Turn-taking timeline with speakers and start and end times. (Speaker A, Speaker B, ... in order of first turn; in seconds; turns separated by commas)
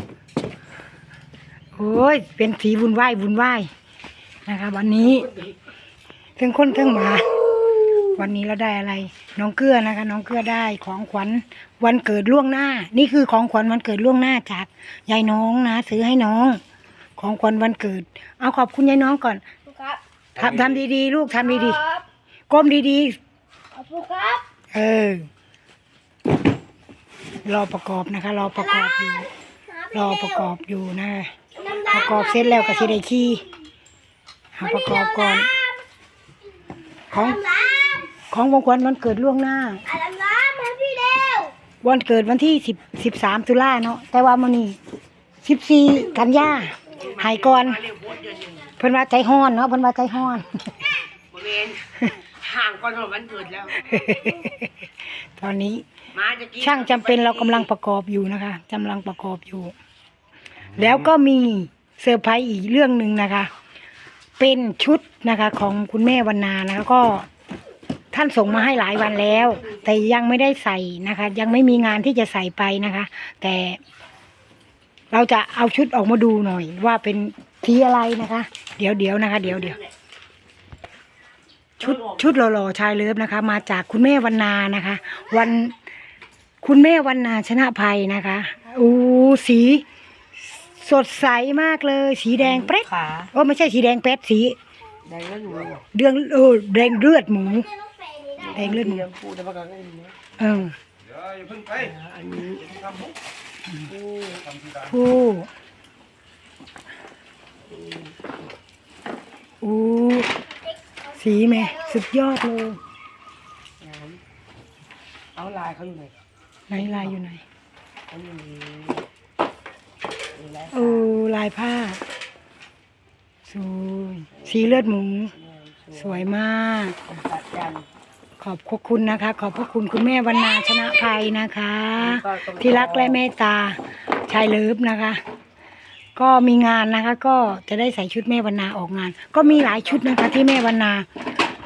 Speaker A: 1.8-3.7, Speaker A: 4.5-5.4, Speaker A: 6.4-16.6, Speaker A: 17.2-19.5, Speaker B: 19.7-20.0, Speaker A: 20.4-22.0, Speaker A: 22.5-23.2, Speaker B: 23.7-24.4, Speaker A: 24.7-25.3, Speaker A: 27.4-29.3, Speaker A: 29.9-33.5, Speaker A: 34.5-35.5, Speaker A: 37.1-37.6, Speaker B: 37.4-38.1, Speaker A: 38.2-39.9, Speaker B: 39.9-41.5, Speaker A: 41.8-44.8, Speaker A: 45.4-47.9, Speaker C: 47.0-48.7, Speaker A: 48.8-50.9, Speaker C: 51.3-53.9, Speaker A: 53.8-54.7, Speaker A: 55.3-55.9, Speaker C: 56.1-57.7, Speaker A: 56.6-59.7, Speaker A: 60.7-63.5, Speaker A: 64.4-67.3, Speaker A: 68.1-73.8, Speaker A: 75.1-79.8, Speaker A: 81.8-85.8, Speaker A: 86.6-89.8, Speaker A: 90.4-94.6, Speaker C: 92.4-93.3, Speaker C: 95.0-95.8, Speaker A: 95.9-97.7, Speaker C: 98.3-100.2, Speaker A: 98.5-99.0, Speaker A: 100.4-100.8, Speaker C: 101.5-103.1, Speaker C: 103.8-104.6, Speaker A: 104.8-105.5, Speaker C: 107.7-108.3, Speaker A: 109.6-110.4, Speaker A: 111.0-112.8, Speaker C: 113.8-114.2, Speaker C: 115.3-116.2, Speaker A: 116.7-117.5, Speaker C: 118.1-119.1, Speaker C: 120.3-121.1, Speaker A: 120.7-122.0, Speaker A: 123.5-125.3, Speaker C: 124.3-126.3, Speaker A: 125.9-127.0, Speaker C: 127.1-127.9, Speaker A: 128.4-135.2, Speaker C: 132.0-133.2, Speaker A: 136.2-141.1